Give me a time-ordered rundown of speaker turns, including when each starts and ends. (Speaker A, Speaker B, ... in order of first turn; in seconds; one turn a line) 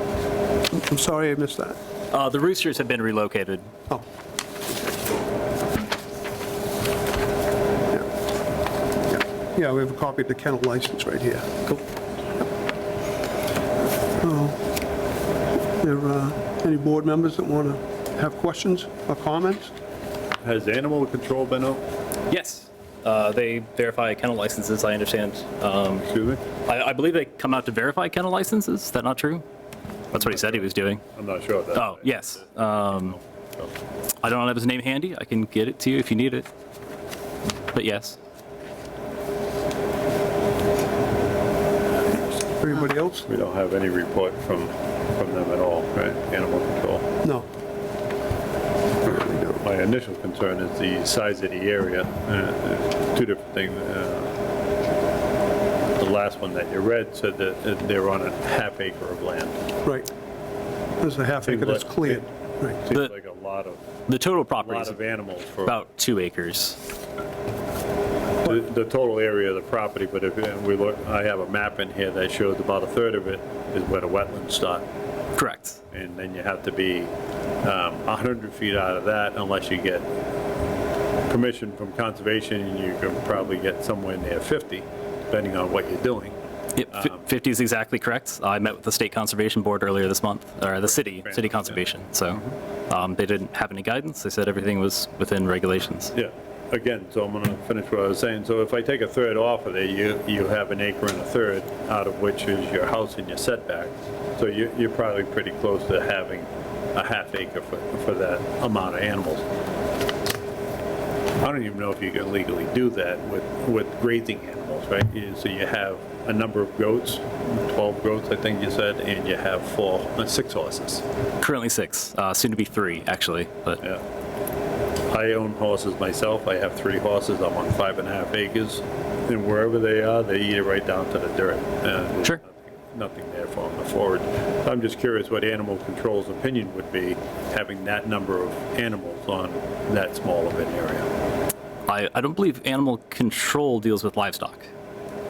Speaker A: 0.7-1.8
Speaker B: 2.1-3.7
Speaker A: 9.1-11.7
Speaker A: 14.2-14.6
Speaker A: 15.8-19.7
Speaker C: 20.4-21.8
Speaker B: 22.3-26.1
Speaker C: 26.0-26.4
Speaker B: 26.6-29.4
Speaker B: 30.1-31.0
Speaker C: 30.1-33.7
Speaker B: 31.7-33.2
Speaker B: 34.2-36.5
Speaker B: 37.7-38.2
Speaker A: 42.1-43.3
Speaker C: 43.3-47.0
Speaker A: 49.0-49.6
Speaker C: 49.6-54.4
Speaker C: 56.0-59.6
Speaker A: 61.0-62.8
Speaker C: 61.4-62.2
Speaker C: 62.8-63.8
Speaker B: 64.1-65.0
Speaker C: 64.5-65.8
Speaker B: 65.6-66.8
Speaker C: 68.4-74.8
Speaker B: 75.3-75.8
Speaker C: 75.9-80.1
Speaker C: 81.3-86.3
Speaker B: 86.8-96.1
Speaker C: 86.9-87.2
Speaker C: 90.8-92.5
Speaker C: 96.1-109.5
Speaker C: 111.4-121.0
Speaker B: 121.4-123.8
Speaker C: 125.1-141.1
Speaker B: 141.9-144.7